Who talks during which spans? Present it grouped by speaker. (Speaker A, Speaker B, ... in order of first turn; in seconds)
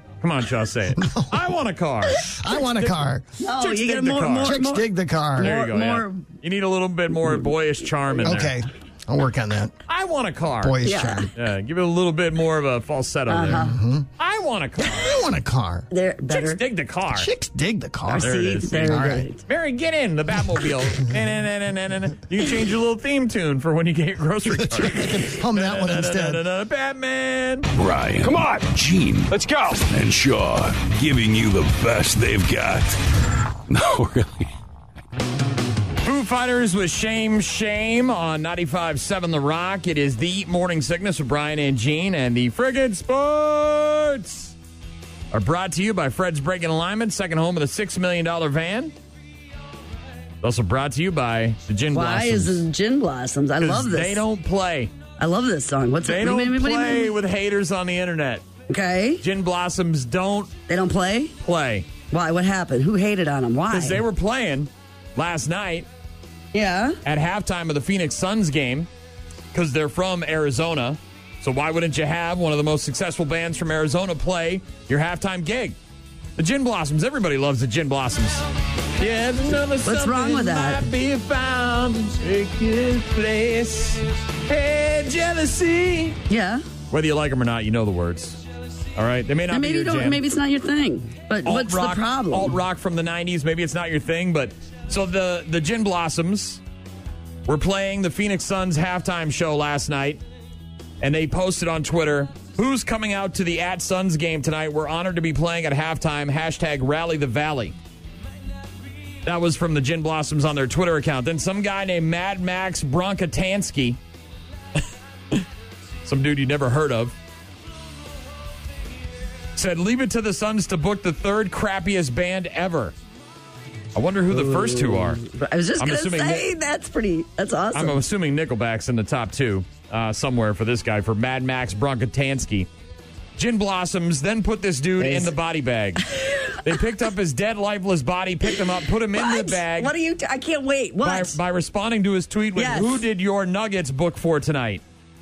Speaker A: 0.2-2.3, 3.6-4.6, 5.4-8.6, 9.9-10.8, 11.3-15.2, 16.3-17.3, 18.1-27.7, 36.0-44.5, 45.3-48.9, 50.4-52.6, 53.6-54.9, 56.0-58.4, 59.2-60.5, 61.4-61.9, 63.7-65.9, 67.0-68.9, 69.5-75.8, 76.4-86.2, 86.9-88.4, 89.0-90.2, 91.4-96.6, 97.5-100.2, 101.0-107.8, 109.2-114.0, 116.0-117.1, 119.5-122.9, 123.9-125.2, 125.8-126.5, 127.7-132.7, 133.4-136.1, 136.6-139.9, 141.0-144.8
Speaker B: 0.9-1.4, 2.2-3.3, 4.4-5.6, 8.2-9.7, 10.6-11.3, 13.5-14.1, 14.8-15.9, 17.1-19.3, 24.5-26.4
Speaker C: 3.4-6.2, 10.8-11.3, 13.3-13.8, 15.9-16.6, 18.1-19.4, 51.9-54.2, 55.2-57.1, 58.7-59.2, 60.7-61.4, 62.1-64.0, 66.5-67.0, 79.8-80.8, 86.3-86.6, 89.5-92.6, 124.3-128.0, 135.0-135.3, 139.1-141.3, 142.6-143.0
Speaker D: 27.7-33.0, 33.7-34.5